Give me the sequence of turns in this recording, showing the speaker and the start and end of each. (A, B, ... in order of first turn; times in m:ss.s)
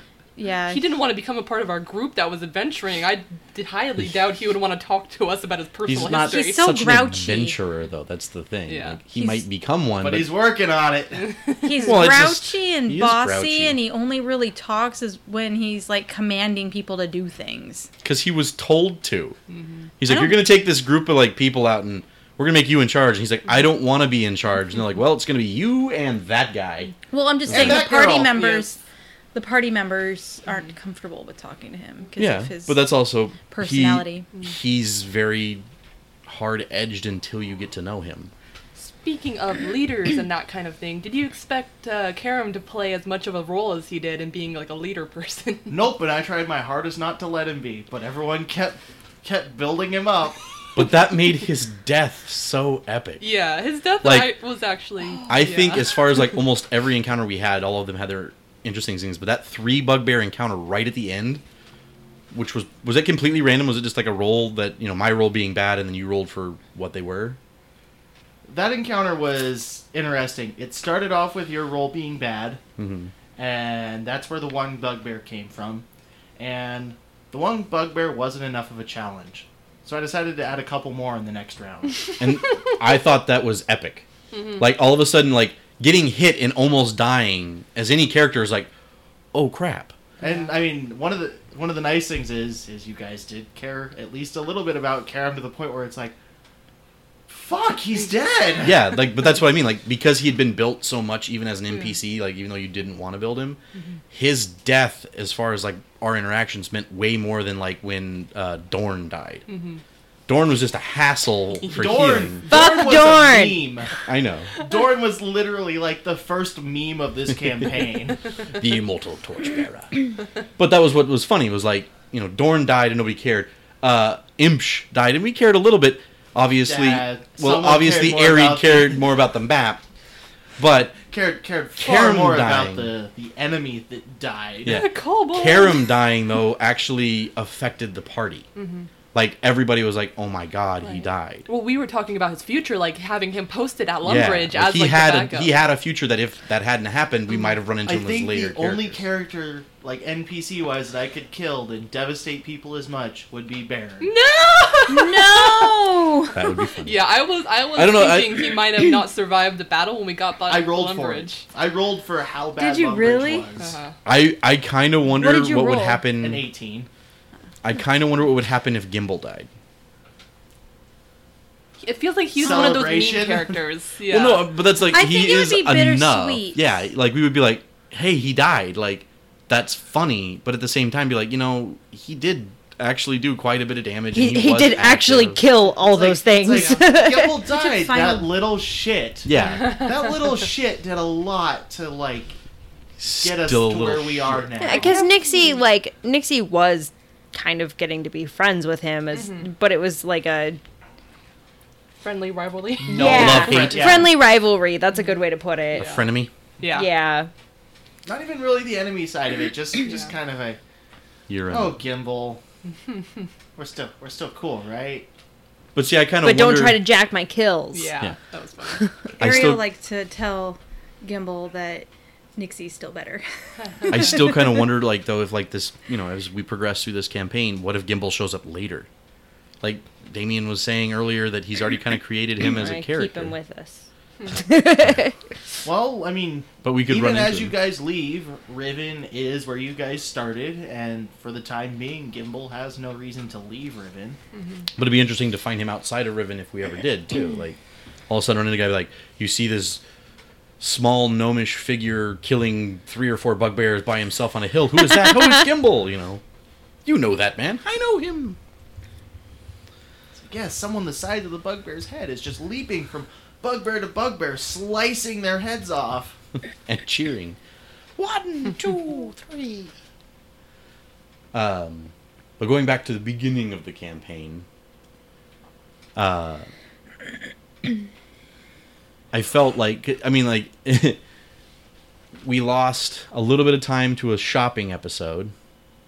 0:00.4-0:00.9 A
0:00.7-0:06.7 B
0:05.9-0:10.3 C
0:06.2-0:07.6 A
0:08.7-0:09.0 B
0:09.1-0:09.4 A
0:10.0-0:11.4 D
0:11.2-0:12.0 B
0:11.6-0:17.9 A
0:11.8-0:13.8 C
0:18.0-0:19.4 C
0:19.5-0:19.8 B
0:20.0-0:26.9 C
0:20.0-0:20.4 A
0:27.1-0:28.8 A
0:27.5-0:27.9 C
0:27.5-0:28.6 D
0:29.3-0:32.9 A
0:32.2-0:35.6 C
0:33.5-0:34.2 A
0:36.2-0:38.3 C
0:38.8-0:45.8 B
0:45.7-0:50.4 D
0:50.7-0:53.3 C
0:53.2-0:56.0 B
0:54.0-0:54.3 C
0:55.3-1:01.4 C
1:02.3-1:07.4 C
1:08.5-1:12.6 D
1:12.8-1:13.1 C
1:13.4-1:15.9 D
1:16.4-1:22.0 D
1:22.2-1:28.7 C
1:24.3-1:24.6 B
1:29.3-1:29.9 C
1:30.2-1:30.5 B
1:30.2-1:36.2 D
1:37.3-1:38.8 D
1:38.6-1:43.6 C
1:44.1-1:49.4 C
1:49.5-1:49.8 B
1:50.3-1:52.4 C
1:51.6-1:52.2 B
1:51.7-1:53.9 D
1:52.5-1:53.6 E
1:54.1-1:54.6 C
1:54.6-1:58.2 D
1:58.6-2:09.8 C
2:06.6-2:09.0 D
2:10.6-2:11.0 C
2:11.1-2:14.8 D
2:11.8-2:12.9 C
2:14.6-2:18.5 C
2:14.7-2:16.0 B
2:18.6-2:18.9 B
2:19.1-2:21.5 C
2:20.8-2:25.6 B
2:24.0-2:29.0 C
2:27.3-2:27.6 B
2:27.8-2:34.1 D
2:34.0-2:35.8 B
2:34.9-2:36.5 A
2:36.3-2:37.1 C
2:36.8-2:41.4 B
2:37.7-2:38.6 C
2:40.5-2:43.8 D
2:42.6-2:43.5 A
2:43.6-2:43.9 B
2:44.0-2:46.4 C
2:45.1-2:46.0 E
2:46.2-2:46.9 D
2:47.6-2:49.5 C
2:51.8-2:54.6 B
2:52.4-2:53.6 D
2:54.1-3:05.4 C
2:54.9-2:56.7 A
3:04.1-3:07.5 E
3:05.8-3:12.4 D
3:06.5-3:06.8 B
3:07.5-3:08.3 A
3:09.2-3:09.9 C
3:09.4-3:10.0 B
3:13.0-3:14.7 C
3:13.1-3:15.0 D
3:14.6-3:20.6 E
3:14.7-3:15.6 B
3:19.1-3:19.5 B
3:22.0-3:23.3 B
3:22.8-3:24.2 D
3:22.9-3:26.0 E
3:22.9-3:24.1 C
3:25.7-3:26.1 B
3:25.7-3:26.3 C
3:26.6-3:26.9 B
3:26.7-3:27.3 E
3:28.1-3:30.6 D
3:31.3-3:31.8 C
3:31.5-3:32.4 D
3:32.9-3:33.2 B
3:33.6-3:35.1 D
3:35.7-3:36.8 C
3:36.2-3:38.0 E
3:37.7-3:38.9 B
3:39.2-3:44.4 A
3:39.2-3:39.6 C
3:43.9-3:48.9 C
3:49.6-3:53.4 C
3:52.4-3:55.1 E
3:55.6-4:04.2 D
3:56.6-3:57.6 C
4:04.4-4:04.6 B
4:04.8-4:07.6 C
4:08.1-4:09.8 C
4:10.6-4:16.2 C
4:16.8-4:18.4 C
4:20.1-4:26.2 D
4:26.7-4:27.4 C
4:28.0-4:29.7 C
4:31.3-4:34.4 C
4:36.0-4:36.5 C
4:39.1-4:41.0 C
4:42.2-4:45.3 C